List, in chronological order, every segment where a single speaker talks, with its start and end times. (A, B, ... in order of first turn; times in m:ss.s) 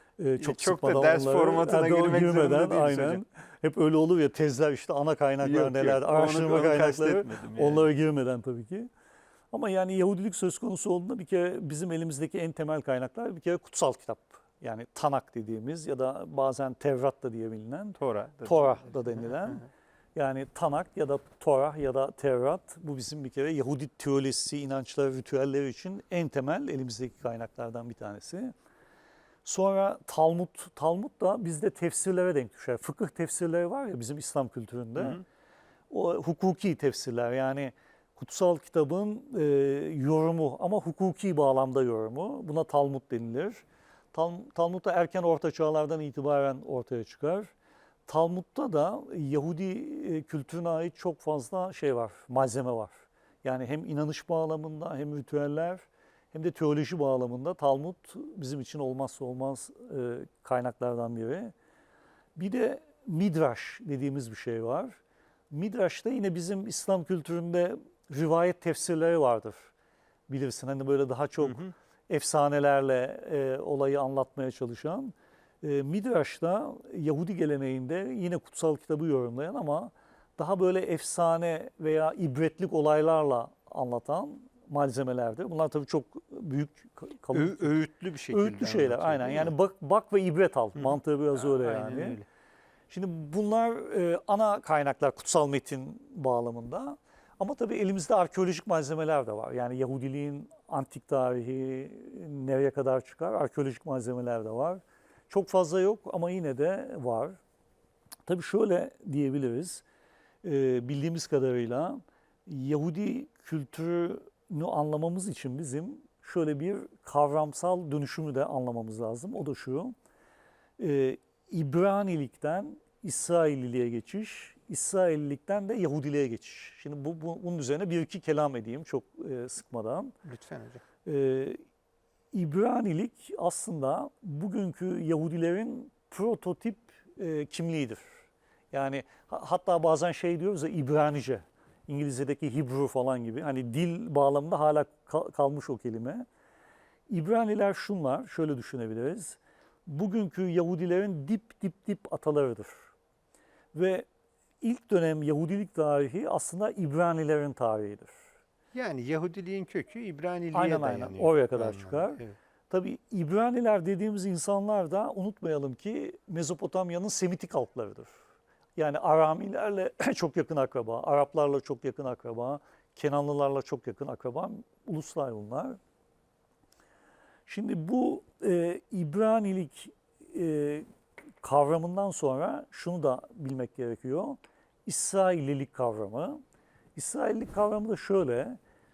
0:00.2-0:08.9 A
0:00.4-0:03.2 B
0:05.4-0:07.9 B
0:09.5-0:28.5 A
0:18.0-0:19.6 B
0:29.4-0:35.2 A
0:35.9-0:47.5 A
0:48.0-1:01.5 A
1:02.4-1:05.0 A
1:05.5-1:09.7 A
1:10.3-1:27.7 A
1:11.4-1:11.7 B
1:27.3-1:29.5 B
1:28.3-1:32.2 A
1:30.8-1:32.2 B
1:32.9-1:47.4 A
1:48.2-1:49.8 A
1:50.4-1:59.9 A
2:00.8-2:10.1 A
2:10.2-2:10.8 B
2:11.0-2:11.6 A
2:12.3-2:18.1 A
2:18.7-2:26.2 A
2:27.1-2:32.9 A
2:33.7-2:34.1 A
2:34.6-2:38.2 A
2:38.7-2:42.4 B
2:40.5-2:48.1 A
2:48.8-2:55.8 A
2:57.5-3:00.8 A
3:01.4-3:06.4 A
3:06.9-3:08.6 A